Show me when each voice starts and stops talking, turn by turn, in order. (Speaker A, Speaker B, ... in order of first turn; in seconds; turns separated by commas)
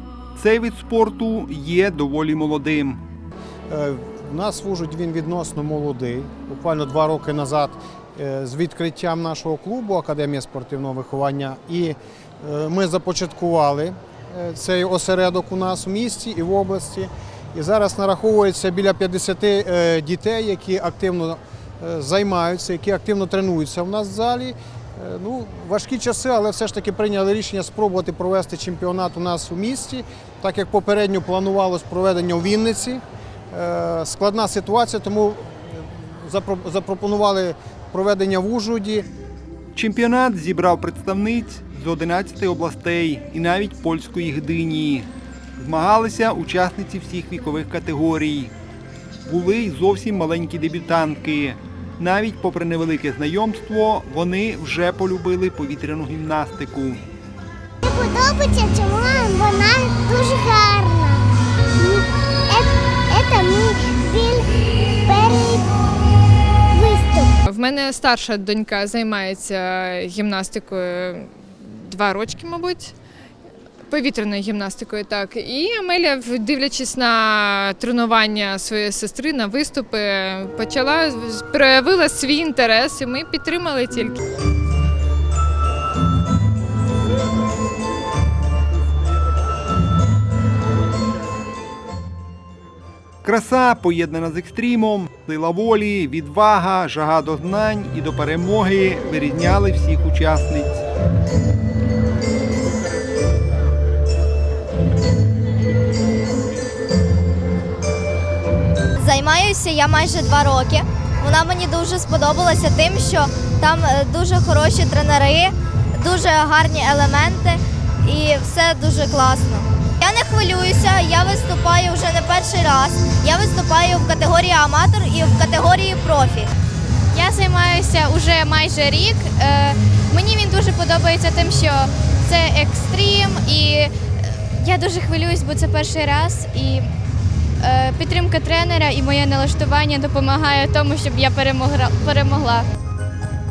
Speaker A: 0.3-3.0, Speaker B: 3.7-39.0, Speaker A: 39.8-48.5, Speaker A: 49.2-57.0, Speaker C: 57.8-64.5, Speaker C: 65.1-65.7, Speaker C: 66.7-67.4, Speaker D: 67.5-72.9, Speaker D: 73.9-84.2, Speaker A: 93.2-100.8, Speaker E: 109.0-126.5, Speaker F: 127.1-136.9, Speaker F: 137.6-142.7